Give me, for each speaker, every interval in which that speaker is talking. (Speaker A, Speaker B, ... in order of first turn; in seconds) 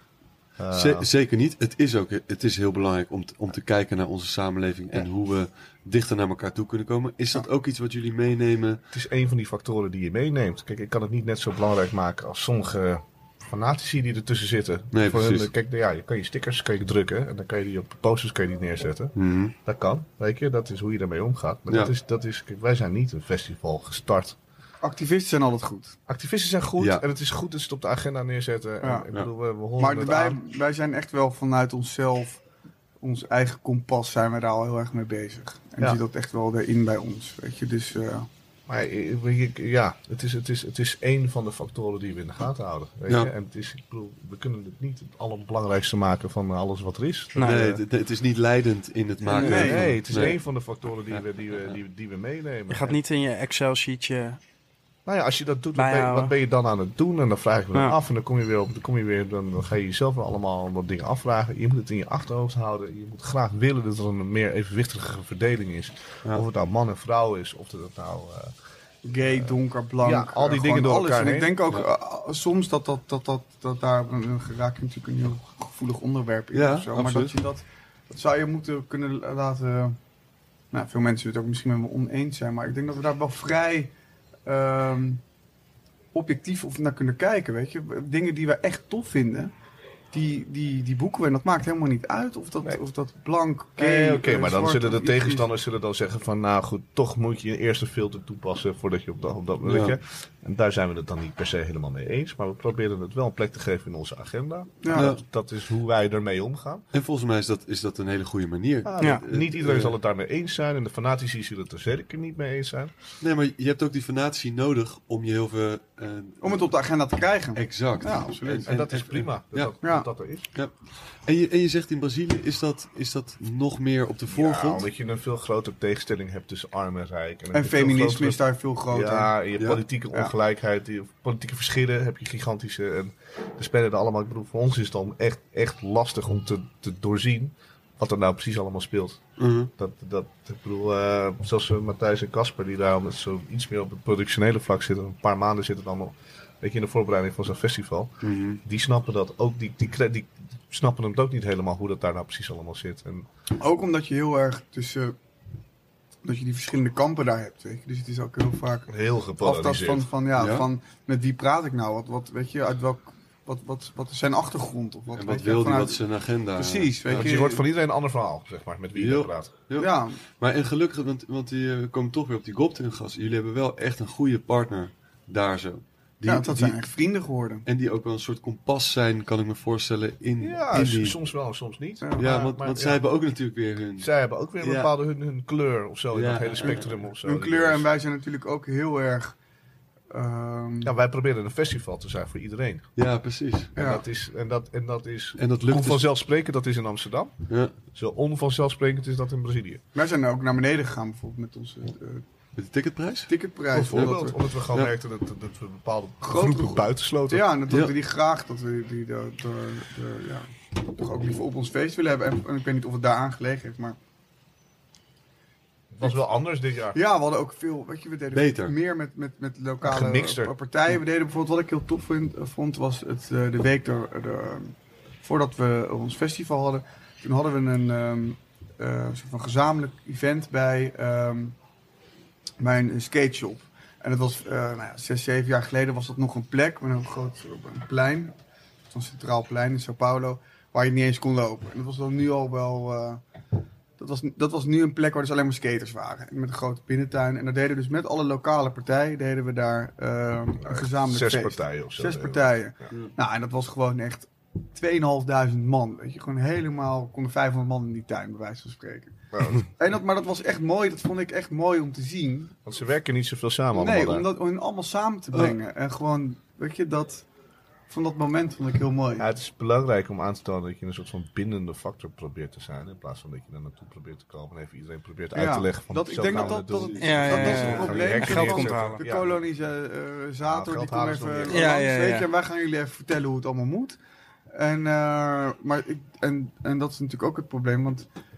Speaker A: 0.6-1.1, 8.9-24.4, 26.1-30.4, 38.7-47.5, 49.3-53.0, 55.0-68.5, 69.2-71.7, 93.8-106.8, 108.8-112.9, 118.6-120.5, 124.3-139.2, 139.8-153.3, 158.9-160.1, 167.1-169.5, 180.4-183.0, 184.0-187.8, 190.8-192.8, 193.7-197.3, 197.9-199.8, 203.7-207.5, 215.9-217.0, 219.8-220.5, 250.6-252.9, 259.3-259.6, 262.6-264.3, 269.2-279.4, 280.4-281.8
Speaker B: 0.7-8.8, 14.9-15.5, 19.1-19.5, 26.8-27.0, 43.1-43.3, 47.4-50.4, 76.5-77.3, 99.6-100.0, 104.9-105.2, 106.9-110.0, 113.2-116.7, 117.5-119.7, 120.5-124.9, 129.6-129.8, 139.4-139.7, 148.2-148.6, 160.3-160.7, 165.1-167.3, 168.9-176.8, 177.7-181.2, 182.2-184.9, 186.1-187.0, 192.9-193.7, 195.4-196.1, 202.6-203.3, 203.9-204.2, 218.3-218.7, 276.4-277.9
Speaker C: 24.8-25.9, 28.8-29.1, 29.8-32.4, 33.0-38.3, 49.3-49.9, 69.0-80.0, 80.7-83.9, 84.5-85.2, 86.1-89.5, 90.1-95.5, 104.8-105.1, 116.4-118.7, 119.8-120.1, 127.5-129.4, 153.6-155.2, 156.2-166.0, 166.6-167.7, 169.8-170.2, 176.2-177.6, 187.2-189.4, 190.1-190.9, 193.8-194.0, 199.9-202.2, 203.3-204.4, 206.2-213.9, 216.9-231.5, 232.6-238.3, 238.9-243.2, 244.0-262.5, 263.7-267.3, 267.9-269.3, 275.3-284.0, 284.5-288.1
Speaker D: 47.4-47.8, 52.7-54.4, 55.7-56.3, 277.0-279.0, 281.5-282.3